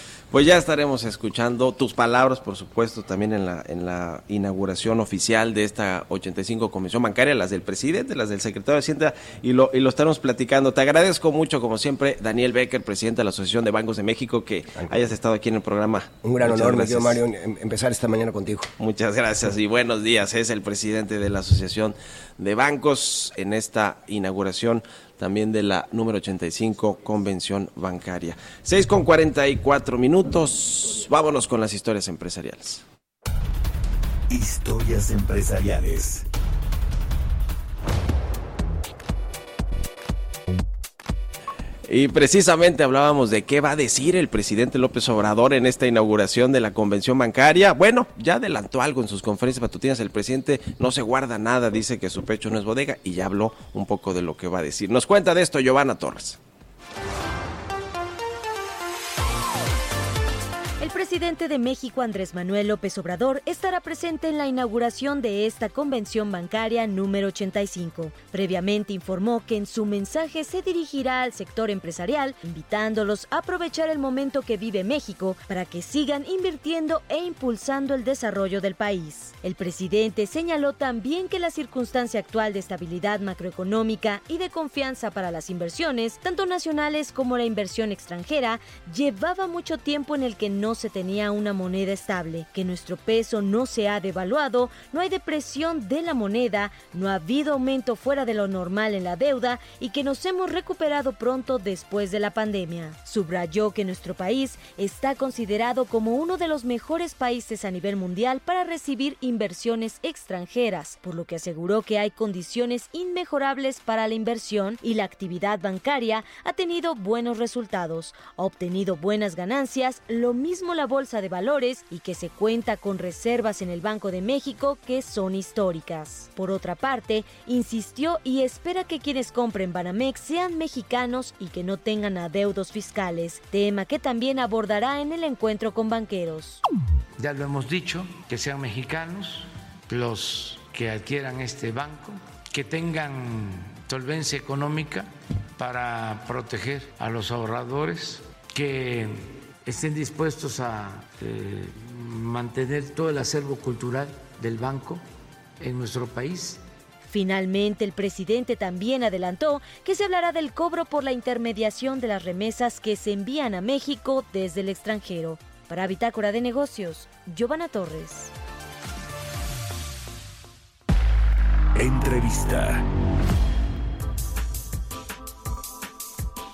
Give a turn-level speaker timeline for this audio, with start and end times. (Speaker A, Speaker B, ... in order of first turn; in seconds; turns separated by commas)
Speaker A: 0.3-17.2, Speaker B: 14.7-15.1, Speaker B: 16.2-18.7, Speaker A: 18.8-32.8, Speaker C: 34.3-36.2, Speaker A: 41.9-56.4, Speaker D: 60.8-136.6, Speaker E: 137.2-155.0, Speaker E: 155.6-156.6, Speaker D: 157.1-168.3, Speaker C: 171.8-172.8